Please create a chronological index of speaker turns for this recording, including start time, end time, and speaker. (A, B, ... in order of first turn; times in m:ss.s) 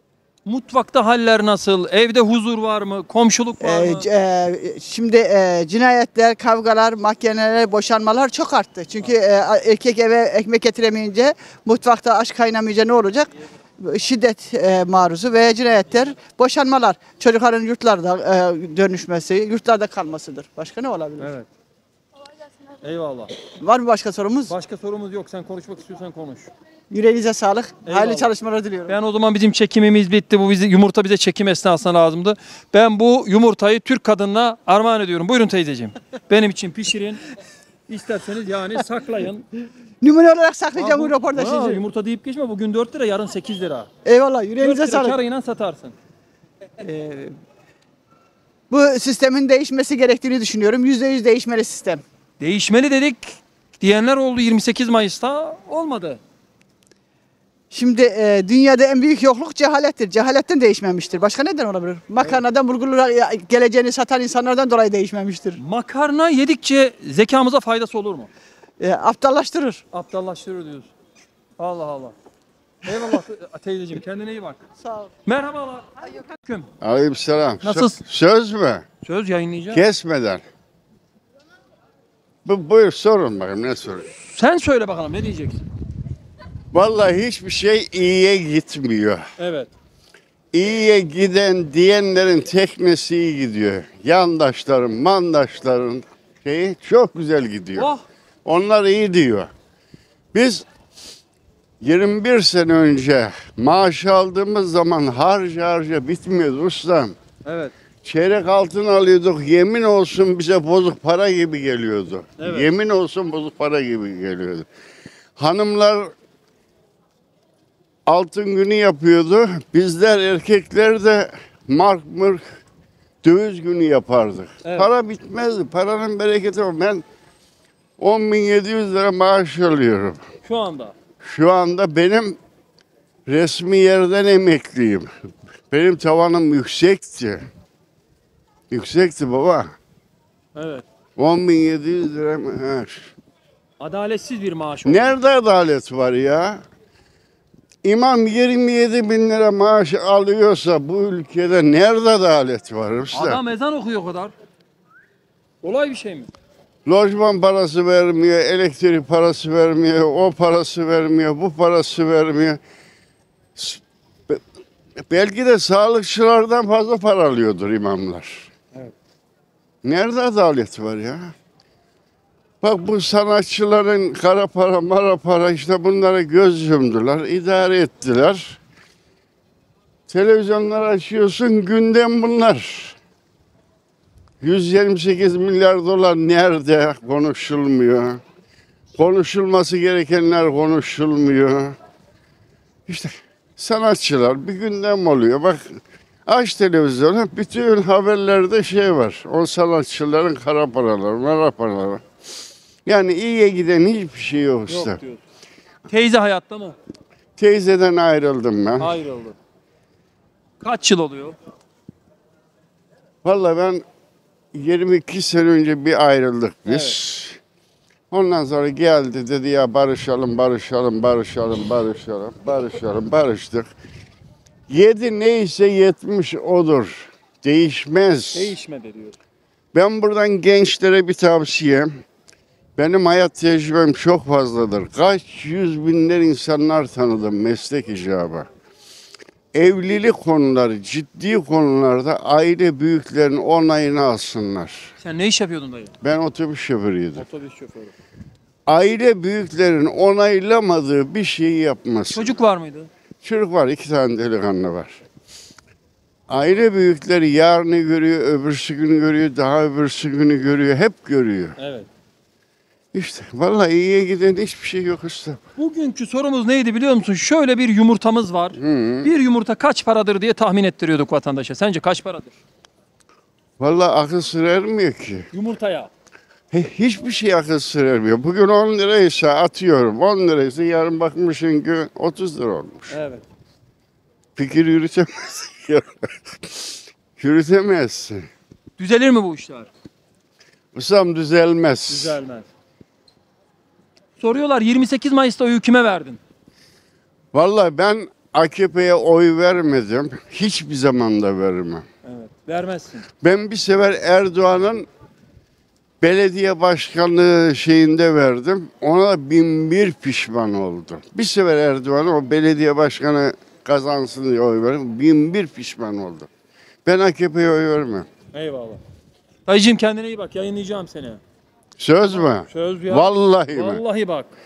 0:00.4-0:04.1 A
0:03.6-0:21.3 B
0:21.2-0:21.5 A
0:22.8-0:23.3 A
0:23.6-0:24.5 B
0:24.5-0:26.5 A
0:26.9-0:29.0 B
0:27.9-0:28.3 A
0:28.9-0:37.3 A
0:37.9-0:39.5 A
0:40.0-0:41.8 B
0:40.8-0:43.9 A
0:44.0-0:45.2 B
0:44.6-0:45.9 A
0:46.8-0:47.3 B
0:48.7-0:52.0 B
0:52.4-0:56.2 A
0:57.7-1:05.6 B
1:05.6-1:08.3 A
1:08.8-1:09.8 B
1:09.9-1:10.9 A
1:11.6-1:12.1 A
1:12.8-1:14.6 A
1:14.8-1:15.1 B
1:15.2-1:16.7 A
1:16.8-1:18.8 C
1:17.6-1:18.0 A
1:19.0-1:19.8 A
1:19.7-1:20.4 C
1:22.4-1:24.1 C
1:24.1-1:25.6 A
1:26.7-1:29.2 C
1:29.4-1:29.7 A
1:30.5-1:37.9 C
1:37.8-1:38.0 A
1:38.4-1:39.5 C
1:40.3-1:40.6 C
1:41.8-1:47.1 C
1:47.4-1:47.7 A
1:48.0-1:54.7 C
1:52.4-1:52.7 A
1:55.4-1:56.1 C
1:58.1-2:02.6 C
2:03.2-2:07.0 C
2:04.6-2:04.9 A
2:08.0-2:10.2 C
2:10.4-2:10.9 A
2:11.2-2:12.4 C
2:13.3-2:15.1 C
2:15.7-2:17.4 C
2:18.7-2:19.7 C
2:20.6-2:20.8 A
2:21.2-2:23.1 C
2:23.8-2:25.1 A
2:24.9-2:26.6 C
2:27.8-2:33.4 C
2:33.1-2:34.3 A
2:35.6-2:36.3 A
2:36.9-2:42.6 C
2:43.6-2:44.4 C
2:45.0-2:48.5 C
2:49.8-2:51.3 C
2:52.6-2:58.6 C
3:00.1-3:03.0 C
3:04.4-3:08.2 C
3:09.0-3:11.8 C
3:12.9-3:22.0 C
3:22.8-3:25.0 C
3:24.7-3:25.2 A
3:25.9-3:26.8 A
3:27.4-3:28.9 C
3:28.8-3:29.4 A
3:30.6-3:31.4 A
3:33.2-3:33.8 C
3:34.5-3:37.4 C
3:36.7-3:37.0 A
3:38.1-3:43.7 C
3:44.7-3:48.5 C
3:48.3-3:49.2 A
3:49.7-3:51.9 C
3:52.8-3:58.5 C
3:59.5-4:04.9 C
4:05.0-4:05.9 A
4:06.0-4:07.2 C
4:07.2-4:07.9 A
4:08.7-4:12.3 C
4:12.1-4:12.9 A
4:13.2-4:15.0 C
4:16.3-4:21.6 C
4:21.6-4:21.9 A
4:22.9-4:25.4 C
4:25.6-4:32.4 A
4:28.6-4:29.1 C
4:33.6-4:35.3 C
4:35.3-4:35.9 A
4:36.5-4:43.0 C
4:42.9-4:43.3 A
4:44.4-4:48.2 C
4:48.8-4:49.7 A
4:50.7-4:52.2 C
4:51.9-4:52.5 A
4:54.2-4:56.2 A
4:57.3-5:01.8 C
5:02.0-5:03.1 A
5:03.2-5:04.9 C
5:06.0-5:16.3 C
5:16.8-5:18.1 C
5:18.3-5:18.8 A
5:19.4-5:21.2 A
5:21.8-5:23.8 C
5:22.4-5:24.3 A